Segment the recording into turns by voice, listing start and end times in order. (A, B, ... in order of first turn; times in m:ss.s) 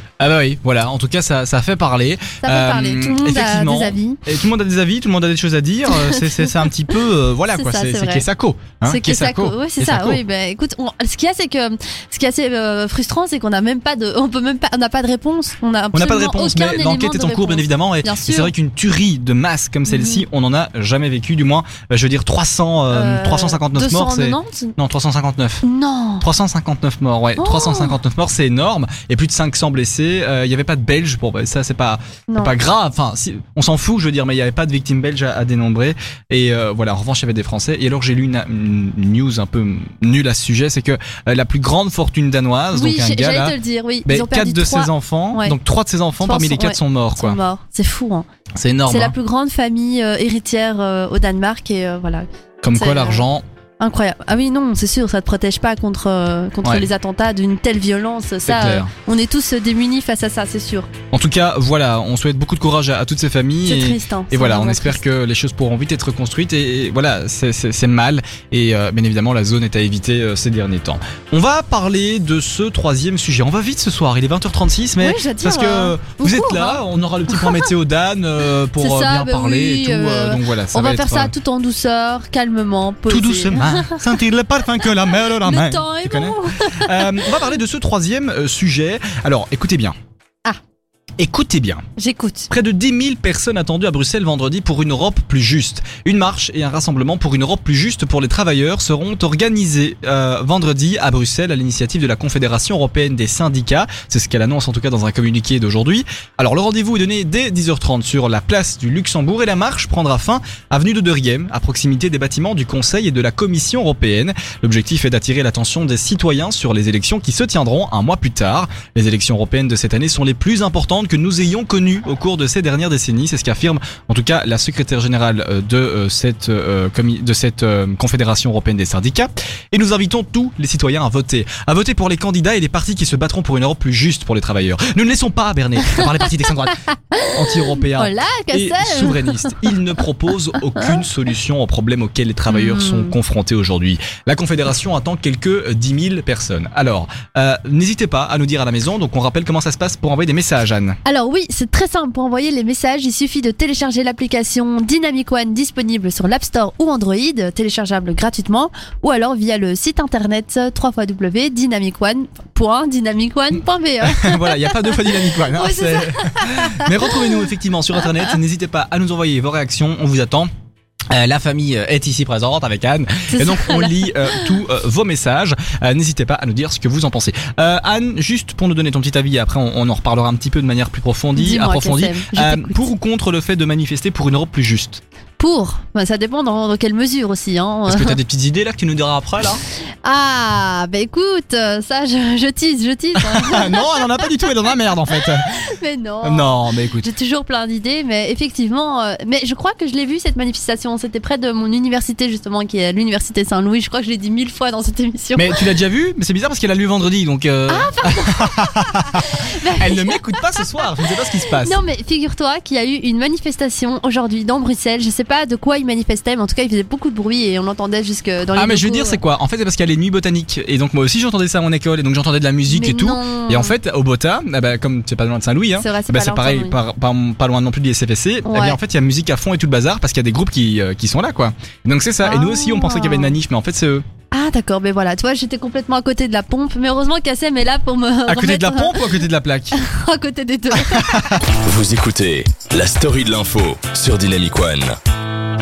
0:00.2-0:10.2 A
0:02.4-0:04.2 B
0:05.9-0:06.5 B
0:07.5-0:08.2 B
0:08.8-0:18.5 B
0:15.9-0:25.6 A
0:19.9-0:20.2 B
0:22.9-0:24.8 B
0:25.6-0:26.2 B
0:26.2-0:47.4 A
0:27.4-0:28.0 B
0:32.3-0:32.5 B
0:42.7-0:45.6 B
0:46.2-0:48.2 B
0:48.6-0:49.1 A
0:48.9-0:53.2 B
0:52.6-0:53.4 A
0:53.8-1:00.9 B
0:58.4-0:58.9 A
1:01.1-1:21.3 A
1:03.6-1:05.0 B
1:15.0-1:17.7 B
1:18.8-1:24.0 B
1:23.1-1:29.9 A
1:25.4-1:27.3 B
1:31.2-1:31.8 A
1:32.0-1:32.5 B
1:32.5-2:16.8 A
2:16.9-2:19.6 B
2:17.3-2:31.0 A
2:22.5-2:23.1 B
2:31.0-2:47.2 B
2:44.0-2:50.5 A
2:51.1-3:05.0 A
2:53.3-2:54.5 B
3:01.4-3:02.9 B
3:05.4-3:08.2 B
3:07.9-3:09.6 A
3:10.0-3:14.5 B
3:13.2-3:15.5 A
3:15.1-3:25.6 B
3:16.2-3:17.1 A
3:25.4-3:31.8 A
3:27.7-3:30.4 B
3:31.6-3:39.2 B
3:38.6-3:54.0 A
3:42.7-3:43.7 B
3:45.8-3:46.8 B
3:48.4-3:48.8 B
3:52.2-3:53.3 B
3:54.3-3:59.1 B
3:58.3-3:59.8 A
3:59.7-4:01.4 B
4:00.7-4:01.4 A
4:01.4-4:05.0 C